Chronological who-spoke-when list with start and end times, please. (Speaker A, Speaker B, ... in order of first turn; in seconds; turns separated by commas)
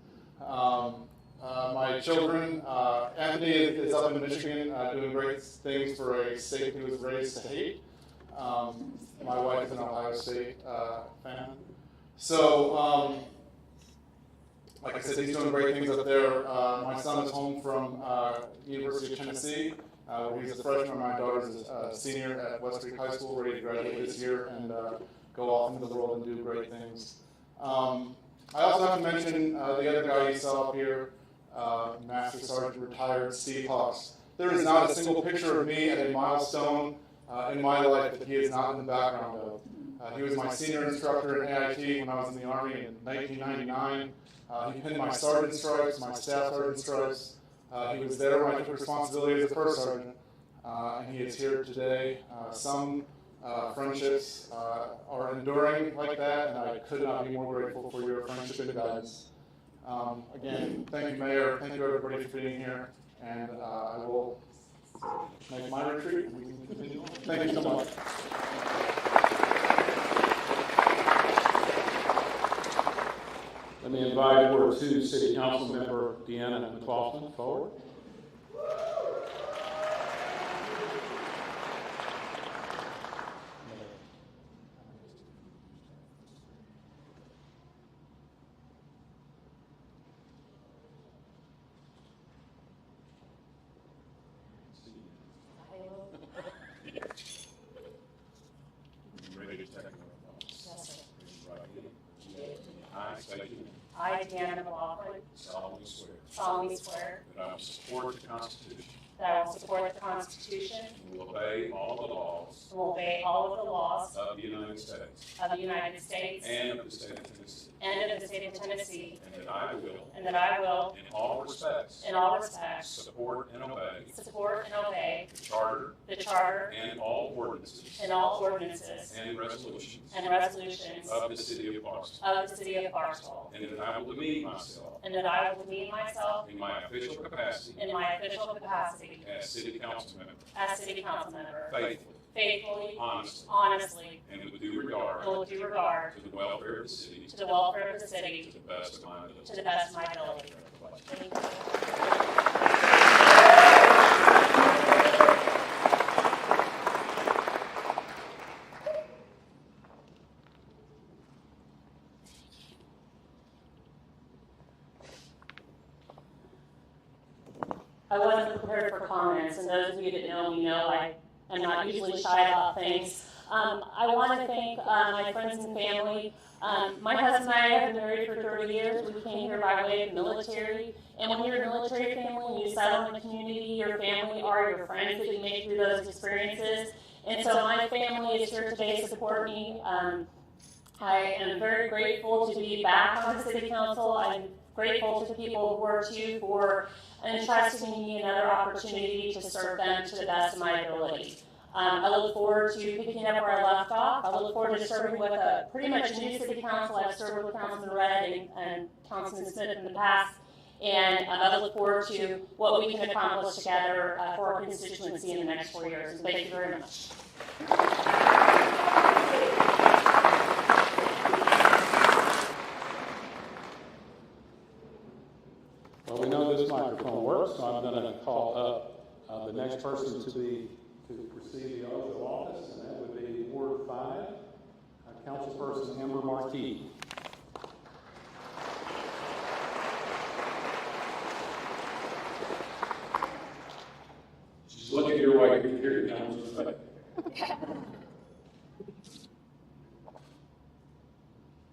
Speaker A: 0.4-11.7, Speaker A: 12.2-13.3, Speaker A: 14.8-59.3, Speaker A: 59.8-64.4, Speaker A: 65.5-67.9, Speaker B: 73.8-77.8, Speaker A: 83.7-84.0, Speaker B: 94.7-95.3, Speaker C: 95.7-96.1, Speaker B: 99.1-103.8, Speaker C: 100.7-100.9, Speaker C: 103.9-105.3, Speaker B: 105.3-106.4, Speaker C: 106.3-107.2, Speaker B: 107.2-109.0, Speaker C: 109.2-111.0, Speaker B: 110.9-112.7, Speaker C: 112.7-114.1, Speaker B: 114.1-115.3, Speaker C: 115.4-116.5, Speaker B: 116.4-117.8, Speaker C: 117.8-119.2, Speaker B: 119.2-120.2, Speaker C: 120.1-120.9, Speaker B: 120.9-122.1, Speaker C: 122.0-122.9, Speaker B: 122.8-124.1, Speaker C: 124.1-125.3, Speaker B: 125.3-126.0, Speaker C: 126.0-126.7, Speaker B: 126.7-128.1, Speaker C: 128.0-129.2, Speaker B: 129.1-130.2, Speaker C: 130.1-131.2, Speaker B: 131.0-132.2, Speaker C: 132.2-133.5, Speaker B: 133.5-135.0, Speaker C: 135.0-136.5, Speaker B: 136.4-137.8, Speaker C: 137.8-139.2, Speaker B: 139.2-140.4, Speaker C: 140.5-141.8, Speaker B: 141.7-142.3, Speaker C: 142.3-144.2, Speaker B: 142.9-143.5, Speaker B: 144.2-145.6, Speaker C: 145.2-146.1, Speaker B: 146.1-147.4, Speaker C: 147.3-148.5, Speaker B: 148.4-151.2, Speaker C: 149.4-150.5, Speaker C: 151.1-152.1, Speaker C: 168.1-190.3, Speaker C: 191.0-217.1, Speaker B: 226.1-234.4, Speaker B: 235.1-236.9, Speaker B: 244.7-246.8